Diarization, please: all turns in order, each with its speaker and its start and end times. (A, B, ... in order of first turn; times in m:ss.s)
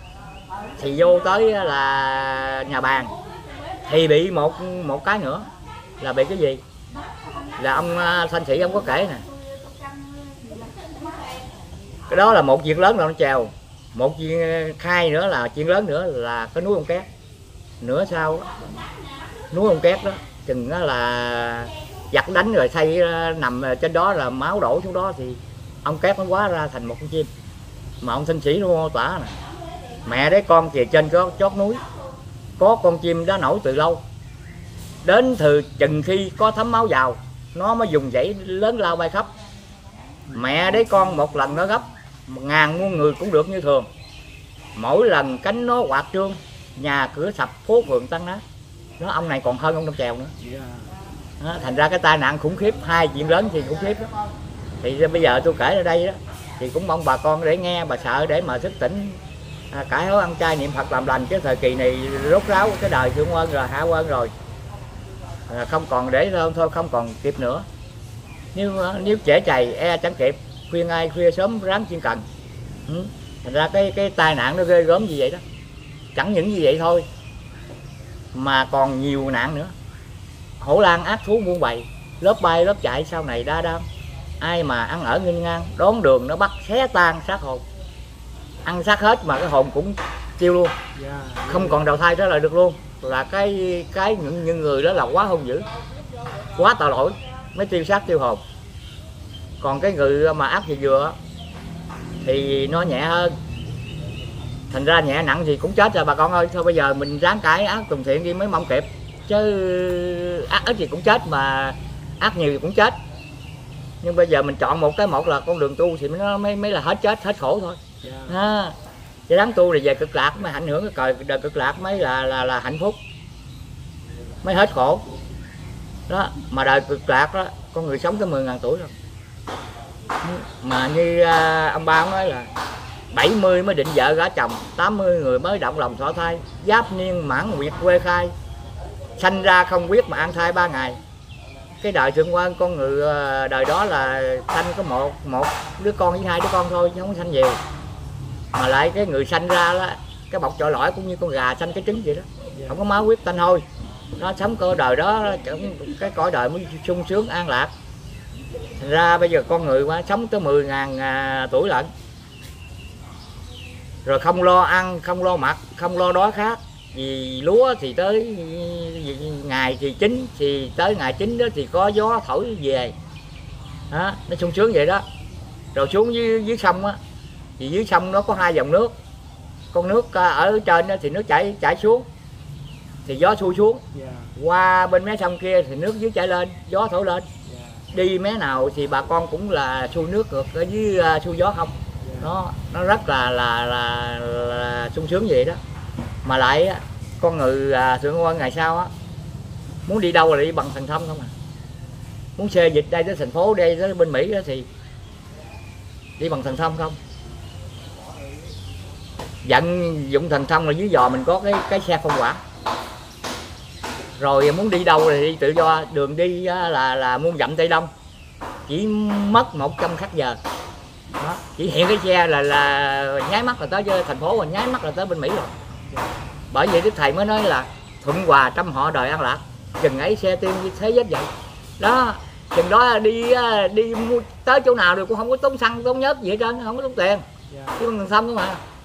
0:00.8-0:03.1 A
0:03.8-0:05.5 A
0:06.0-0:06.6 A
0:07.6-0:09.2 A
0:12.1-0:17.1 A
0:17.8-0:18.5 A
0:19.5-0:27.3 A
0:28.0-0:29.4 A
0:30.0-0:31.8 A
0:32.6-0:34.0 A
0:35.0-0:39.3 A
0:40.3-0:41.2 B
0:40.3-0:43.9 A
0:44.8-0:48.4 A
0:49.0-0:50.3 A
0:50.4-0:50.9 B
0:51.4-0:54.0 A
0:54.8-0:59.2 A
0:59.7-1:04.3 A
1:05.5-1:07.6 A
1:08.5-1:12.2 A
1:12.9-1:15.4 A
1:16.2-1:17.0 A
1:18.3-1:19.7 A
1:20.6-1:23.8 A
1:24.4-1:27.6 A
1:28.6-1:30.7 A
1:30.9-1:31.8 B
1:31.5-1:35.6 A
1:36.6-1:38.4 A
1:39.6-1:41.2 A
1:42.2-1:43.4 A
1:44.7-1:53.0 A
1:54.0-1:58.8 A
1:58.0-1:58.4 B
1:59.3-2:03.0 A
2:04.4-2:05.0 A
2:06.1-2:08.9 A
2:10.2-2:12.5 A
2:13.1-2:18.3 A
2:19.2-2:21.0 A
2:21.8-2:27.6 A
2:28.5-2:33.6 A
2:34.2-2:37.7 A
2:38.8-2:41.9 A
2:44.0-2:52.9 A
2:53.9-2:55.0 A
2:55.7-2:57.0 A
2:57.6-2:58.9 A
2:59.7-3:02.1 A
3:03.0-3:03.8 A
3:03.9-3:04.3 B
3:04.4-3:07.3 A
3:07.4-3:07.8 B
3:07.9-3:15.6 A
3:12.0-3:12.3 B
3:16.2-3:18.9 A
3:19.8-3:21.3 A
3:22.4-3:24.7 A
3:26.2-3:27.0 A
3:29.4-3:32.4 A
3:34.2-3:37.9 A
3:38.7-3:40.4 A
3:41.2-3:45.5 A
3:46.5-3:57.2 A
3:57.5-3:57.8 B
3:57.8-3:58.6 A